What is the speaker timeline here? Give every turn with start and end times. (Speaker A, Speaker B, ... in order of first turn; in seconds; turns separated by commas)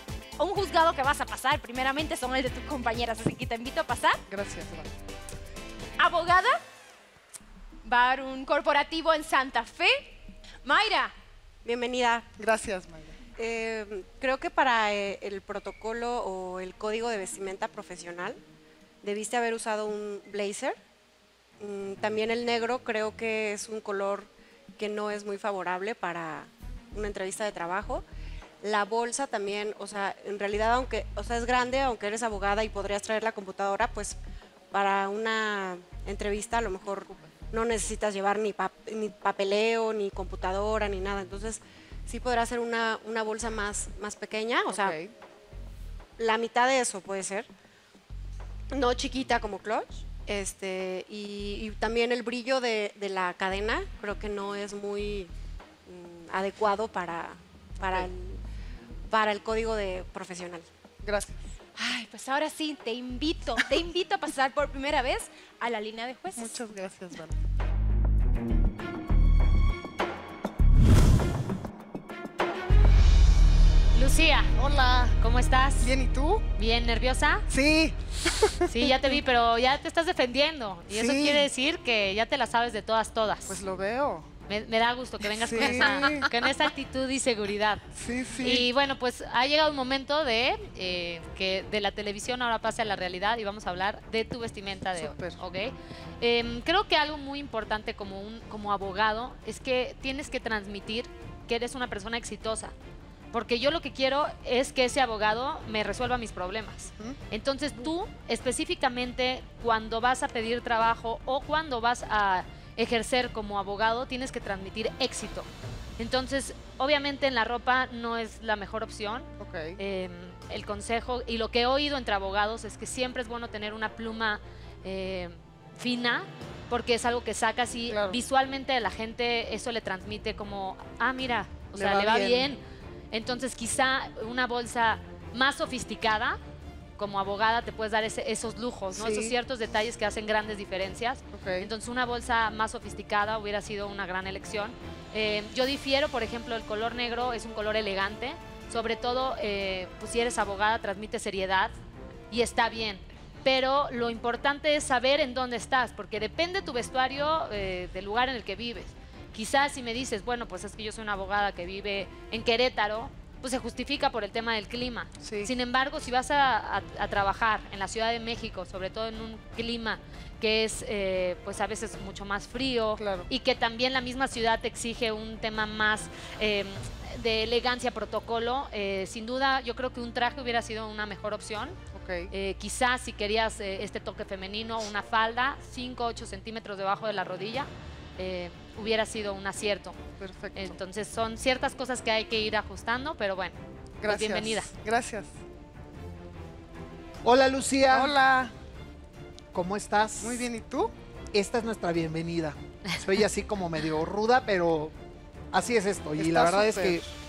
Speaker A: 0.4-4.2, Speaker B: 4.3-4.9, Speaker A: 6.0-6.6, Speaker A: 7.8-11.1, Speaker C: 11.6-12.3, Speaker B: 12.4-13.2, Speaker C: 13.4-18.4, Speaker C: 19.0-20.8, Speaker C: 21.6-28.0, Speaker C: 28.6-34.2, Speaker C: 34.7-45.0, Speaker B: 44.7-45.1, Speaker C: 46.2-47.5, Speaker C: 48.7-55.3, Speaker C: 55.9-58.4, Speaker B: 57.8-58.1, Speaker C: 59.1-60.7, Speaker B: 61.0-61.4, Speaker A: 61.8-66.6, Speaker B: 66.3-67.4, Speaker D: 73.9-74.5, Speaker B: 74.5-75.2, Speaker D: 75.2-76.0, Speaker B: 75.8-76.5, Speaker D: 76.6-77.5, Speaker B: 77.5-79.2, Speaker D: 78.7-83.6, Speaker B: 80.9-81.5, Speaker B: 83.5-84.3, Speaker D: 84.5-102.7, Speaker B: 85.2-86.5, Speaker B: 87.9-88.7, Speaker B: 94.9-95.4, Speaker D: 103.3-132.6, Speaker B: 106.9-107.2, Speaker B: 119.4-119.8, Speaker B: 127.9-128.2, Speaker B: 131.7-132.5, Speaker D: 133.1-136.4, Speaker D: 137.0-151.7, Speaker B: 138.9-139.3, Speaker B: 141.3-141.7, Speaker D: 152.3-181.8, Speaker B: 165.2-165.5, Speaker B: 173.0-173.3, Speaker B: 181.9-182.3, Speaker D: 182.3-190.0, Speaker B: 190.2-190.8, Speaker D: 190.5-194.7, Speaker B: 194.0-195.3, Speaker E: 197.2-198.2, Speaker B: 197.9-198.5, Speaker E: 199.5-200.5, Speaker B: 200.2-200.9, Speaker E: 201.3-204.9, Speaker E: 205.5-207.1, Speaker B: 206.2-207.1